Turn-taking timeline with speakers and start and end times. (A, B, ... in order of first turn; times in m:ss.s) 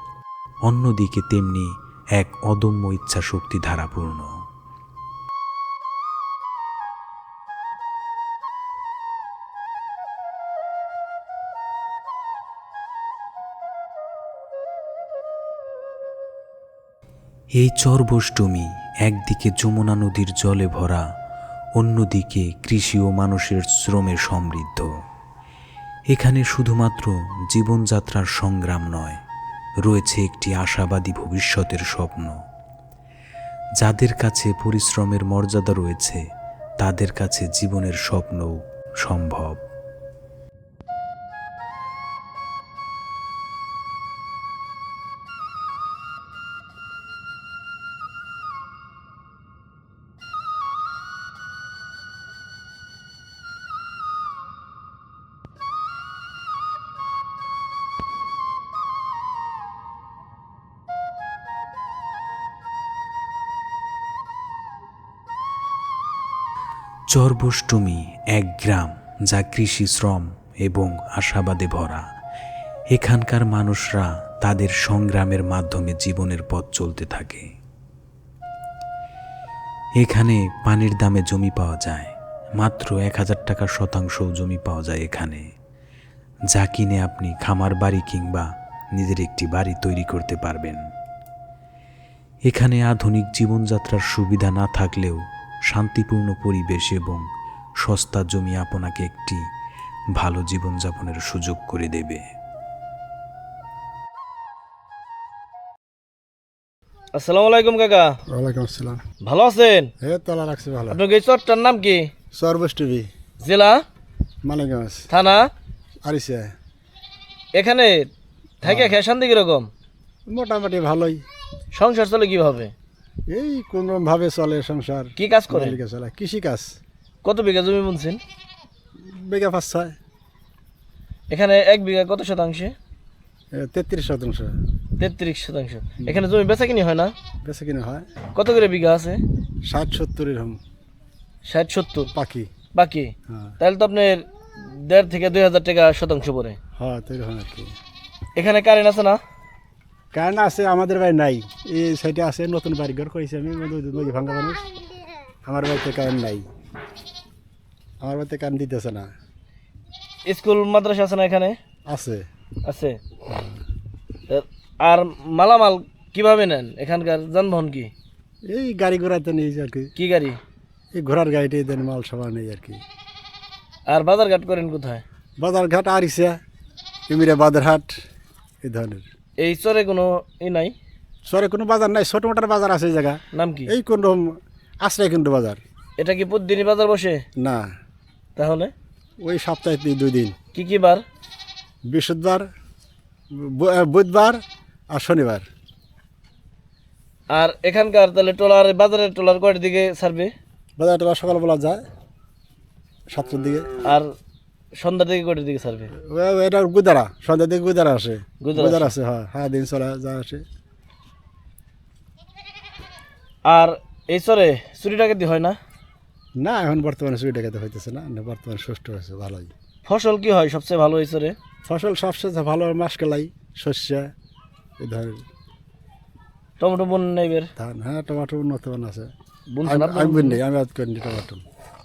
0:00.7-0:04.3 A
0:17.6-0:21.0 A
0:21.8-0:24.9 A
0:26.1-0:29.2 A
0:29.8-0:32.4 A
0:33.8-0:36.2 A
0:36.8-0:39.6 A
1:07.1-1:12.0 A
1:12.9-1:17.5 A
1:20.0-1:25.4 A
1:26.5-1:30.8 A
1:32.5-1:37.2 A
1:37.8-1:39.4 A
1:40.2-1:42.2 A
1:47.2-1:48.1 B
1:48.3-1:49.0 C
1:49.2-1:49.9 B
1:50.0-1:51.0 C
1:50.9-1:52.1 B
1:52.3-1:53.1 C
1:53.4-1:53.8 B
1:54.4-1:55.1 C
1:55.1-1:55.5 B
1:56.0-1:56.5 C
1:57.6-1:58.1 B
1:58.6-1:59.7 B
1:58.6-1:58.9 C
2:00.3-2:01.2 C
2:01.7-2:02.7 B
2:03.3-2:06.7 C
2:05.2-2:05.8 B
2:07.2-2:08.2 B
2:09.0-2:10.0 C
2:11.3-2:12.7 B
2:13.5-2:14.5 C
2:15.0-2:17.1 B
2:17.4-2:18.1 C
2:18.4-2:19.2 B
2:19.6-2:20.6 C
2:21.5-2:22.1 B
2:22.1-2:22.5 C
2:22.7-2:26.6 B
2:23.3-2:23.6 C
2:26.8-2:27.7 C
2:28.4-2:29.2 B
2:30.1-2:34.6 C
2:35.4-2:36.4 C
2:38.0-2:39.1 C
2:40.3-2:41.6 B
2:41.8-2:42.2 C
2:42.7-2:43.0 B
2:43.3-2:43.5 C
2:44.3-2:47.9 B
2:48.5-2:49.9 C
2:50.0-2:50.4 B
2:50.9-2:52.8 C
2:53.9-2:55.0 B
2:55.4-2:56.4 C
2:57.1-2:58.0 C
2:58.6-2:59.0 C
2:59.4-3:00.7 B
3:01.3-3:05.6 C
3:03.3-3:03.7 B
3:06.0-3:07.2 B
3:07.4-3:07.7 C
3:08.4-3:08.7 B
3:09.2-3:10.4 C
3:10.5-3:11.0 B
3:11.9-3:12.5 C
3:13.3-3:14.4 C
3:14.9-3:15.4 C
3:17.3-3:20.3 B
3:20.8-3:21.8 C
3:23.1-3:23.7 C
3:23.8-3:24.1 B
3:24.8-3:25.9 B
3:25.9-3:30.4 C
3:28.4-3:28.9 B
3:33.5-3:35.6 B
3:36.4-3:39.5 C
3:39.8-3:41.4 B
3:41.6-3:44.1 C
3:44.8-3:45.2 C
3:46.6-3:47.5 B
3:47.6-3:49.1 C
3:49.5-3:50.4 B
3:49.6-3:51.4 C